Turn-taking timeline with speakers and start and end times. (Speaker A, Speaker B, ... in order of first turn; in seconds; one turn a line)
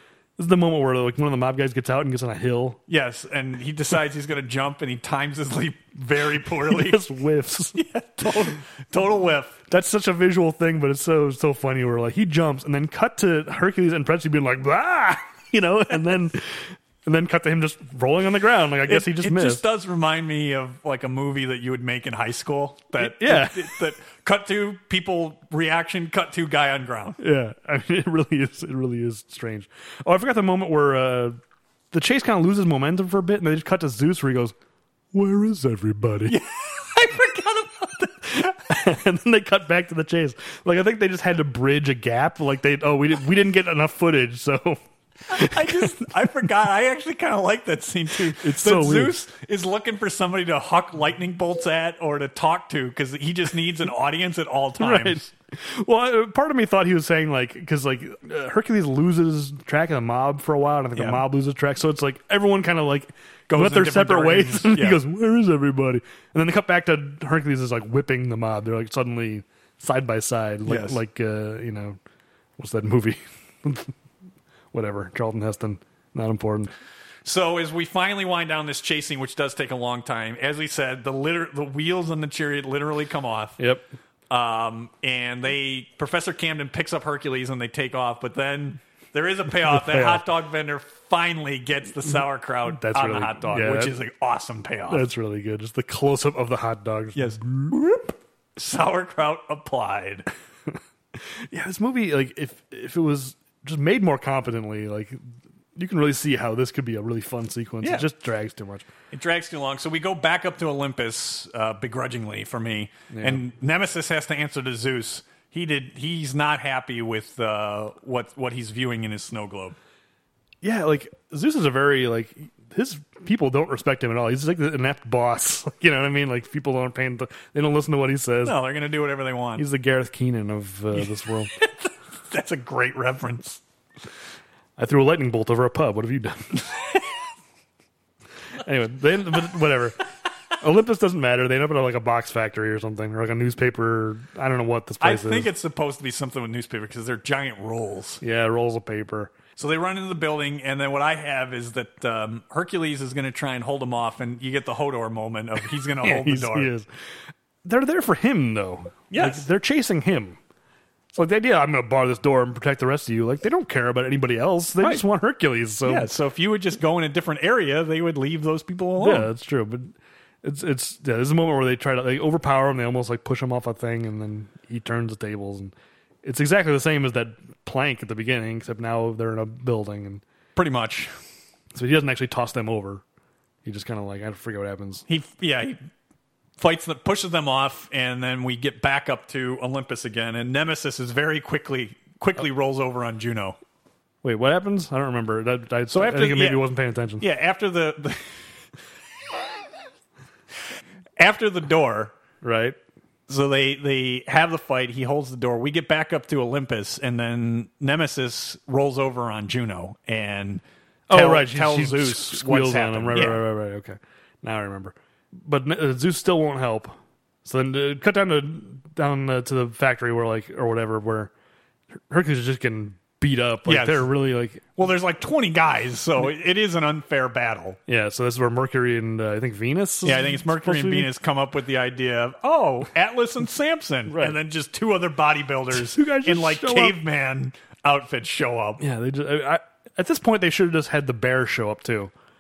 Speaker A: 0.4-2.8
Speaker B: 2.9-7.0
Speaker A: 6.6-8.5
Speaker B: 7.7-9.6
Speaker A: 9.7-19.6
Speaker B: 18.9-27.2
Speaker A: 23.0-23.8
Speaker A: 27.2-31.4
Speaker A: 31.9-34.5
Speaker A: 35.1-36.4
Speaker B: 36.3-38.6
Speaker A: 38.4-44.8
Speaker B: 45.3-55.3
Speaker A: 45.3-46.1
Speaker A: 48.4-49.2
Speaker A: 54.8-72.0
Speaker B: 61.0-61.2
Speaker B: 63.5-65.0
Speaker B: 70.7-71.0
Speaker A: 72.6-73.9
Speaker A: 74.7-76.7
Speaker B: 77.2-83.6
Speaker A: 83.6-83.9
Speaker B: 84.3-95.1
Speaker A: 89.5-90.3
Speaker A: 92.7-94.0
Speaker A: 94.9-97.7
Speaker B: 97.2-100.3
Speaker A: 101.4-105.2
Speaker A: 105.8-108.9
Speaker B: 107.8-108.1
Speaker B: 109.1-119.8
Speaker A: 113.1-113.4
Speaker A: 120.6-128.6
Speaker B: 128.4-129.7
Speaker A: 129.6-131.5
Speaker B: 131.6-133.6
Speaker A: 134.8-136.7
Speaker A: 138.6-140.0
Speaker A: 140.6-145.5
Speaker B: 145.0-148.2
Speaker A: 148.2-149.3
Speaker B: 149.6-156.7
Speaker A: 156.0-156.9
Speaker A: 157.6-160.4
Speaker B: 159.1-159.5
Speaker A: 161.1-166.1
Speaker B: 165.8-169.3
Speaker A: 169.0-180.2
Speaker B: 180.6-181.1
Speaker A: 181.7-183.0
Speaker A: 183.7-185.1
Speaker B: 185.1-185.8
Speaker B: 186.6-193.6
Speaker A: 194.2-197.2
Speaker B: 195.9-196.7
Speaker B: 197.2-198.3
Speaker B: 201.2-202.1
Speaker A: 202.4-202.8
Speaker B: 203.3-213.4
Speaker A: 211.1-221.3
Speaker A: 222.1-224.7
Speaker B: 223.7-224.1
Speaker B: 224.8-227.8
Speaker A: 227.9-231.1
Speaker B: 230.0-238.8
Speaker A: 234.1-234.4
Speaker A: 235.7-237.0
Speaker A: 238.8-242.1